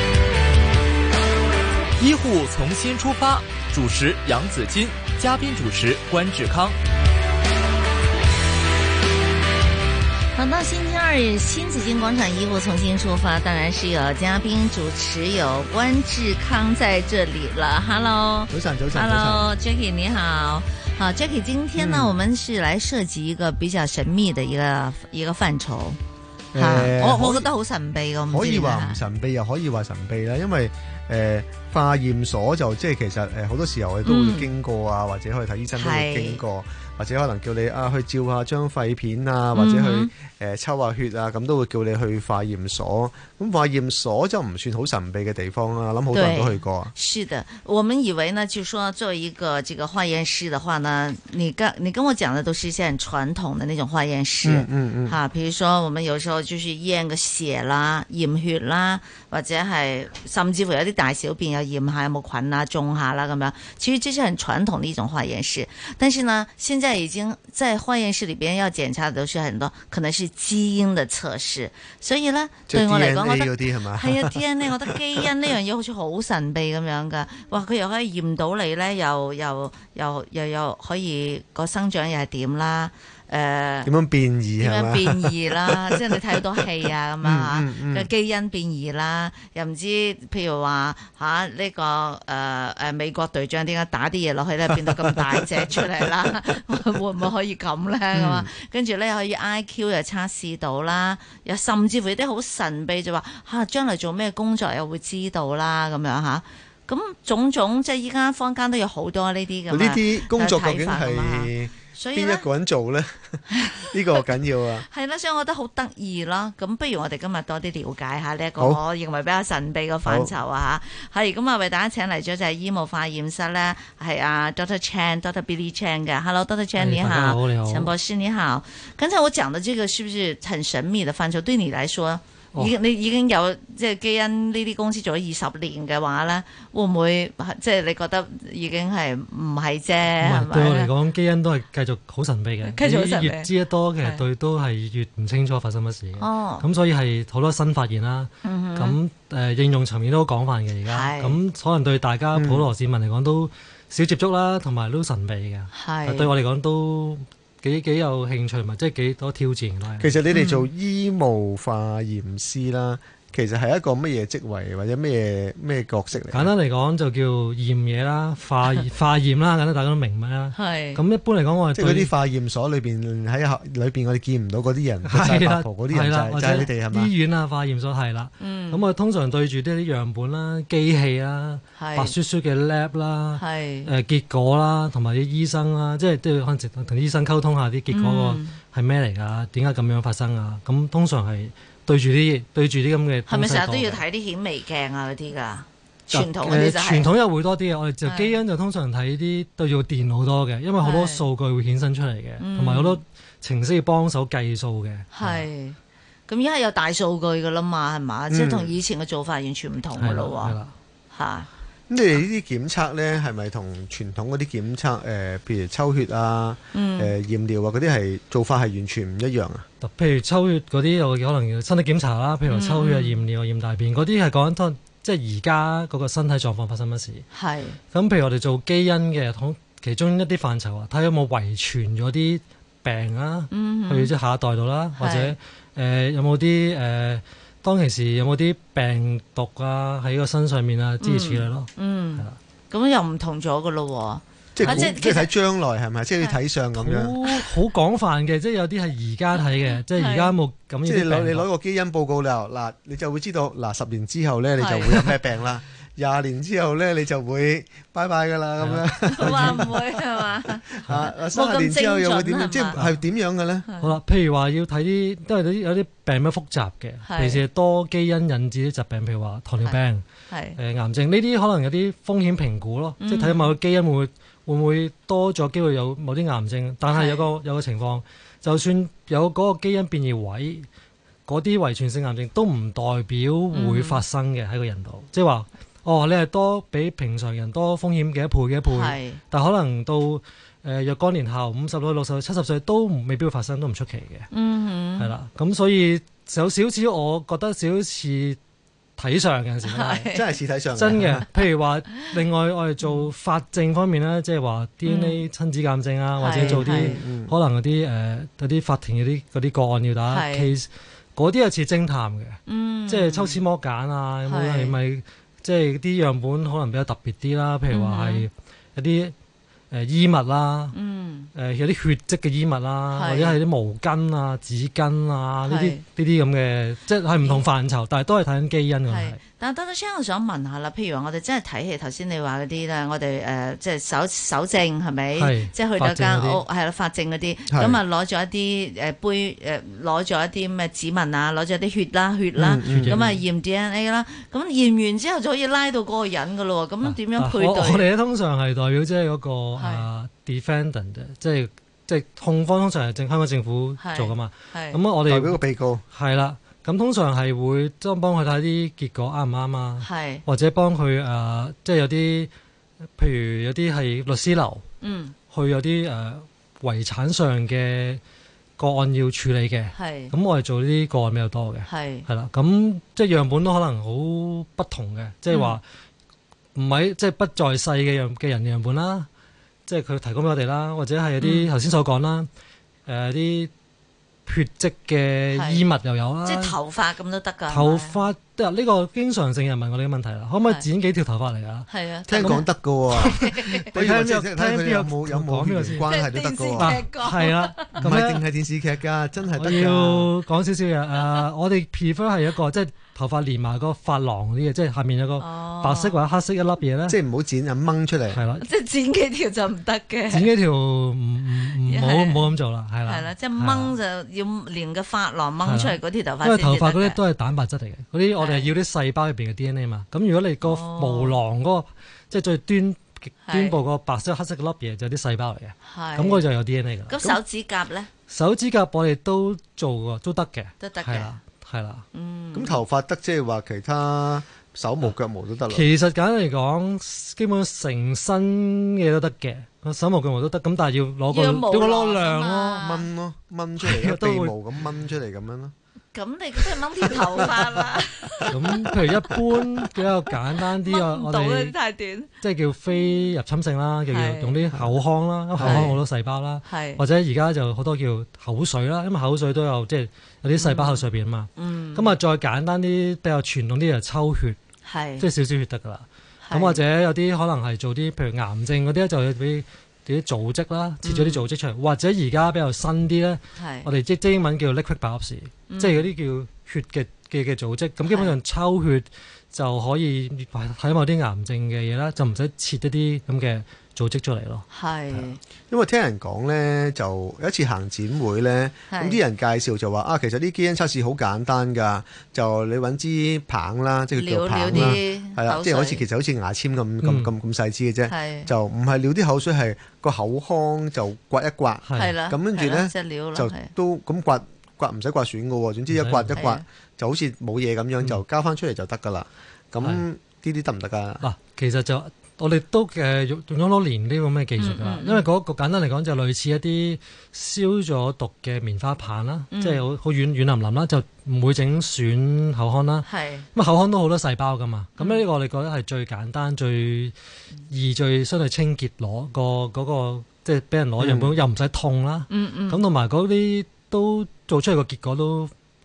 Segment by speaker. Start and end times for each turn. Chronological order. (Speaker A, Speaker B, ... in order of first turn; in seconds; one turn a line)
Speaker A: 2.0-6.8
Speaker B: 10.3-26.0
Speaker C: 18.5-19.5
Speaker C: 21.8-22.2
Speaker C: 26.5-27.5
Speaker B: 26.6-29.0
Speaker C: 28.3-46.9
Speaker B: 34.0-34.5
Speaker B: 35.7-36.4
Speaker B: 39.5-40.1
Speaker B: 46.1-83.9
Speaker C: 54.4-55.2
Speaker C: 72.7-74.4
Speaker C: 83.8-86.2
Speaker B: 84.6-112.5
Speaker C: 87.2-88.1
Speaker C: 98.1-98.5
Speaker C: 109.7-114.9
Speaker B: 113.5-140.9
Speaker C: 120.1-120.3
Speaker D: 126.8-127.9
Speaker D: 140.2-160.2
Speaker B: 142.6-143.5
Speaker B: 146.2-146.7
Speaker B: 148.4-149.0
Speaker B: 150.9-151.4
Speaker C: 152.3-152.7
Speaker B: 155.7-156.3
Speaker C: 160.0-166.5
Speaker B: 160.3-160.7
Speaker D: 166.3-172.1
Speaker B: 170.5-171.0
Speaker C: 171.8-177.1
Speaker D: 175.1-194.0
Speaker B: 178.4-178.8
Speaker B: 181.8-182.2
Speaker B: 183.3-183.9
Speaker B: 187.9-188.6
Speaker B: 193.3-197.1
Speaker D: 196.1-205.5
Speaker B: 198.0-198.4
Speaker B: 200.8-201.2
Speaker B: 202.4-203.0
Speaker B: 205.1-205.8
Speaker B: 206.3-210.6
Speaker C: 208.3-208.8
Speaker D: 210.0-210.7
Speaker B: 211.1-211.5
Speaker C: 211.9-219.7
Speaker B: 216.7-217.1
Speaker D: 219.8-227.3
Speaker B: 222.5-223.2
Speaker B: 227.3-227.8
Speaker D: 227.9-242.4
Speaker B: 233.5-234.1
Speaker B: 235.0-235.3
Speaker B: 241.0-245.3
Speaker C: 244.5-247.2
Speaker D: 244.6-244.9
Speaker D: 246.8-251.5
Speaker B: 249.9-250.3
Speaker C: 250.8-259.9
Speaker B: 254.6-255.2
Speaker D: 258.6-259.7
Speaker B: 259.1-262.8
Speaker C: 260.7-263.7
Speaker D: 260.9-261.1
Speaker B: 263.6-263.9
Speaker D: 263.8-270.0
Speaker B: 267.1-267.4
Speaker B: 270.3-270.6
Speaker D: 270.6-280.7
Speaker B: 273.0-273.5
Speaker B: 276.9-277.3
Speaker D: 281.3-294.3
Speaker B: 283.5-284.0
Speaker B: 288.7-289.2
Speaker B: 294.3-295.1
Speaker D: 295.0-298.4
Speaker D: 299.0-300.1
Speaker B: 299.6-300.2
Speaker C: 300.1-301.2
Speaker D: 300.8-319.1
Speaker B: 304.9-305.2
Speaker B: 306.2-307.0
Speaker C: 306.3-307.4
Speaker B: 310.1-310.5
Speaker B: 312.5-313.4
Speaker B: 314.3-314.8
Speaker B: 317.7-318.2
Speaker D: 319.7-320.8
Speaker B: 320.7-321.3
Speaker D: 321.4-329.2
Speaker B: 322.9-323.4
Speaker B: 325.5-325.8
Speaker B: 328.9-347.9
Speaker D: 335.2-336.4
Speaker C: 337.5-337.8
Speaker C: 342.4-343.1
Speaker D: 342.7-343.2
Speaker D: 346.8-362.3
Speaker B: 349.6-349.9
Speaker B: 353.8-354.8
Speaker C: 355.1-355.8
Speaker B: 359.8-360.2
Speaker D: 363.0-364.6
Speaker B: 364.8-365.1
Speaker D: 365.3-368.0
Speaker D: 368.6-375.6
Speaker B: 369.7-370.1
Speaker B: 371.7-372.1
Speaker B: 375.3-375.6
Speaker D: 376.6-379.1
Speaker D: 379.7-382.3
Speaker B: 381.2-381.5
Speaker D: 382.9-383.5
Speaker D: 384.3-386.6
Speaker B: 385.3-385.6
Speaker B: 386.2-388.0
Speaker D: 387.5-395.9
Speaker B: 391.7-393.8
Speaker C: 392.1-396.8
Speaker B: 395.8-397.8
Speaker D: 396.6-398.2
Speaker C: 397.8-400.1
Speaker D: 399.4-407.0
Speaker B: 405.2-406.0
Speaker C: 406.9-408.2
Speaker D: 408.1-408.5
Speaker B: 408.4-410.3
Speaker D: 410.1-413.8
Speaker B: 411.6-412.3
Speaker B: 412.9-417.0
Speaker D: 415.4-427.1
Speaker B: 418.2-418.5
Speaker B: 420.4-421.2
Speaker B: 423.3-423.6
Speaker B: 425.6-426.2
Speaker B: 426.9-427.9
Speaker D: 428.1-431.8
Speaker B: 430.6-431.2
Speaker B: 431.9-432.6
Speaker C: 432.3-435.7
Speaker D: 435.5-442.6
Speaker B: 441.1-442.9
Speaker C: 442.6-445.5
Speaker D: 443.6-444.4
Speaker B: 445.9-448.8
Speaker C: 446.9-447.2
Speaker D: 448.3-451.6
Speaker B: 449.8-452.1
Speaker D: 452.2-464.4
Speaker B: 453.9-454.5
Speaker C: 455.4-455.8
Speaker B: 455.4-455.8
Speaker B: 456.4-456.8
Speaker B: 460.4-460.9
Speaker B: 461.4-461.9
Speaker B: 464.6-465.1
Speaker D: 465.0-484.5
Speaker B: 466.2-466.6
Speaker B: 470.8-471.2
Speaker B: 473.4-473.7
Speaker B: 475.5-475.9
Speaker B: 477.8-478.1
Speaker B: 484.5-485.2
Speaker C: 485.5-511.1
Speaker B: 488.7-489.0
Speaker B: 493.9-495.9
Speaker D: 494.5-494.8
Speaker D: 496.8-497.1
Speaker B: 497.9-498.3
Speaker D: 501.7-502.0
Speaker B: 501.8-503.5
Speaker D: 505.7-506.2
Speaker B: 506.1-506.4
Speaker D: 511.0-526.9
Speaker B: 514.4-515.1
Speaker B: 519.3-519.6
Speaker B: 522.9-523.3
Speaker B: 524.8-525.0
Speaker D: 527.5-535.3
Speaker C: 530.8-531.1
Speaker B: 532.1-532.6